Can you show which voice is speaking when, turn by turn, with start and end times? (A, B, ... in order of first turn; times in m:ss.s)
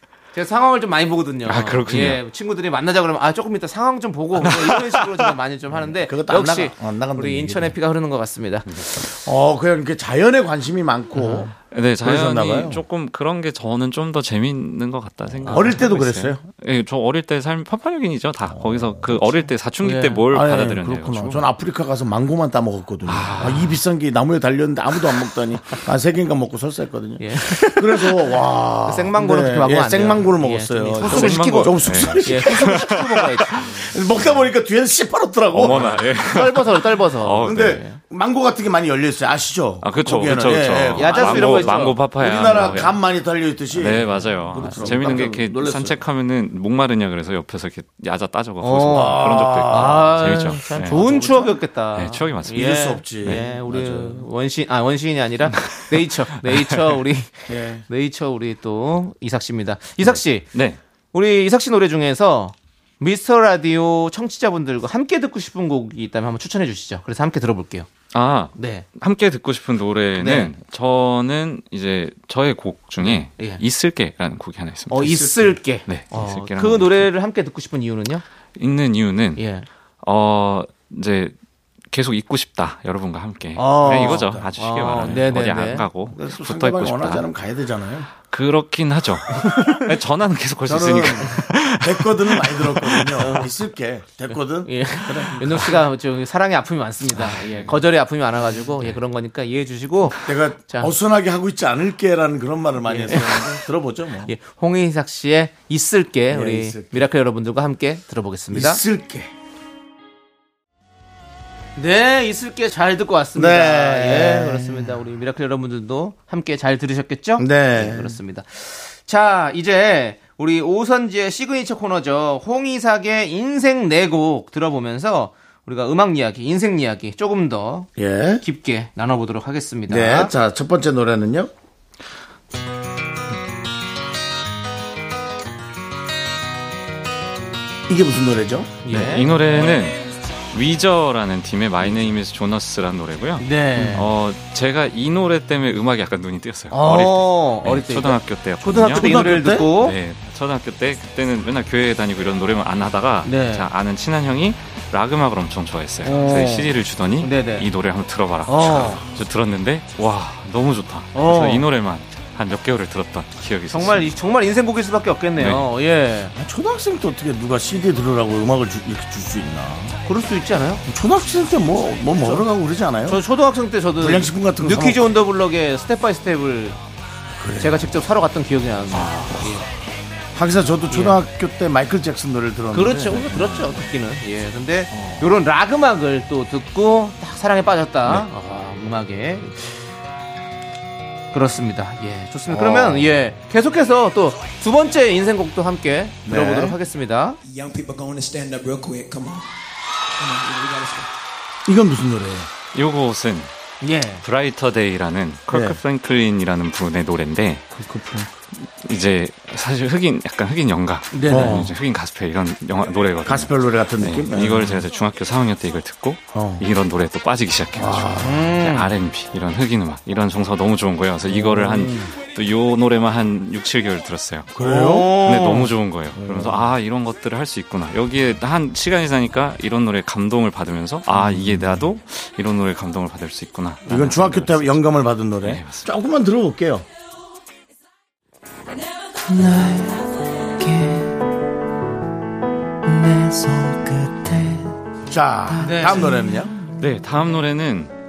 0:00.3-0:08.7 A
0:01.5-0:02.2 B
0:04.4-0:05.3 B
0:05.8-0:07.8 C
0:09.0-0:12.8 C
0:11.2-0:11.5 A
0:11.6-0:21.4 B
0:15.5-0:15.8 A
0:15.5-0:16.4 C
0:18.8-0:19.2 C
0:19.8-0:20.2 A
0:20.3-0:32.8 C
0:23.1-0:23.8 B
0:27.2-0:34.0 A
0:31.0-0:33.7 B
0:33.6-0:36.0 C
0:35.5-0:37.8 B
0:35.6-0:38.0 A
0:37.4-0:46.0 C
0:39.8-0:43.0 B
0:40.9-0:42.9 A
0:43.7-0:51.2 B
0:44.5-0:45.2 A
0:48.6-1:00.6 A
0:48.9-0:50.0 C
0:50.9-0:51.5 C
0:52.0-0:52.6 B
0:52.5-0:54.2 C
0:53.2-0:53.5 B
0:55.6-0:55.9 B
0:56.5-0:56.8 B
0:57.5-0:57.8 C
1:00.0-1:00.8 B
1:01.1-1:07.9 A
1:08.1-1:17.1 B
1:08.6-1:08.9 A
1:10.2-1:10.5 A
1:13.0-1:13.6 A
1:14.9-1:18.2 A
1:18.6-1:19.4 B
1:19.4-1:19.7 A
1:20.0-1:21.4 B
1:21.9-1:27.3 B
1:23.6-1:25.9 A
1:23.8-1:25.2 C
1:26.1-1:28.1 C
1:28.2-1:33.2 B
1:30.7-1:35.8 C
1:33.2-1:33.5 A
1:34.6-1:40.9 A
1:40.2-1:44.3 C
1:42.9-1:43.6 A
1:44.3-1:48.8 A
1:46.3-1:47.0 C
1:48.5-1:49.3 C
1:51.8-2:10.3 A
1:53.4-1:55.0 C
1:57.4-1:58.2 C
2:08.0-2:08.4 C
2:09.9-2:11.5 C
2:17.9-2:18.9 C
2:18.9-2:19.7 A
2:18.9-2:20.0 B
2:20.5-2:29.2 B
2:23.4-2:24.1 A
2:26.7-2:30.0 A
2:28.9-2:29.7 C
2:29.8-2:44.1 B
2:33.2-2:33.7 A
2:36.0-2:37.7 A
2:38.5-2:39.1 A
2:41.1-2:41.7 A
2:43.7-2:46.3 A
2:45.4-2:45.7 B
2:46.4-2:50.0 C
2:50.1-2:50.8 A
2:50.9-2:53.2 C
2:53.1-2:56.8 A
2:54.0-2:55.0 C
2:57.4-2:57.9 C
2:57.6-2:59.6 A
2:58.9-2:59.6 C
3:00.3-3:03.8 C
3:00.9-3:01.2 A
3:02.7-3:09.8 A
3:04.9-3:05.3 C
3:11.3-3:17.4 A
3:12.5-3:13.1 C
3:16.3-3:16.8 C
3:17.5-3:19.4 D
3:20.2-3:21.1 D
3:21.7-3:22.5 C
3:22.7-3:23.5 B
3:23.8-3:24.2 A
3:24.2-3:27.6 B
3:25.5-3:25.8 C
3:27.7-3:28.3 C
3:28.6-3:44.5 B
3:31.1-3:31.7 A
3:31.3-3:31.7 C
3:33.2-3:34.8 C
3:36.3-3:36.7 C
3:37.7-3:38.5 C
3:38.2-3:38.9 A
3:41.3-3:42.1 C
3:44.5-3:45.2 C
3:44.6-3:45.7 A
3:45.2-3:54.8 B
3:46.2-3:46.7 C
3:51.2-3:51.8 C
3:53.8-3:56.8 C
3:55.4-3:55.9 B
3:59.4-4:00.0 E
4:03.0-4:04.5 E
4:05.1-4:06.6 C
4:05.6-4:06.1 A
4:06.8-4:07.9 B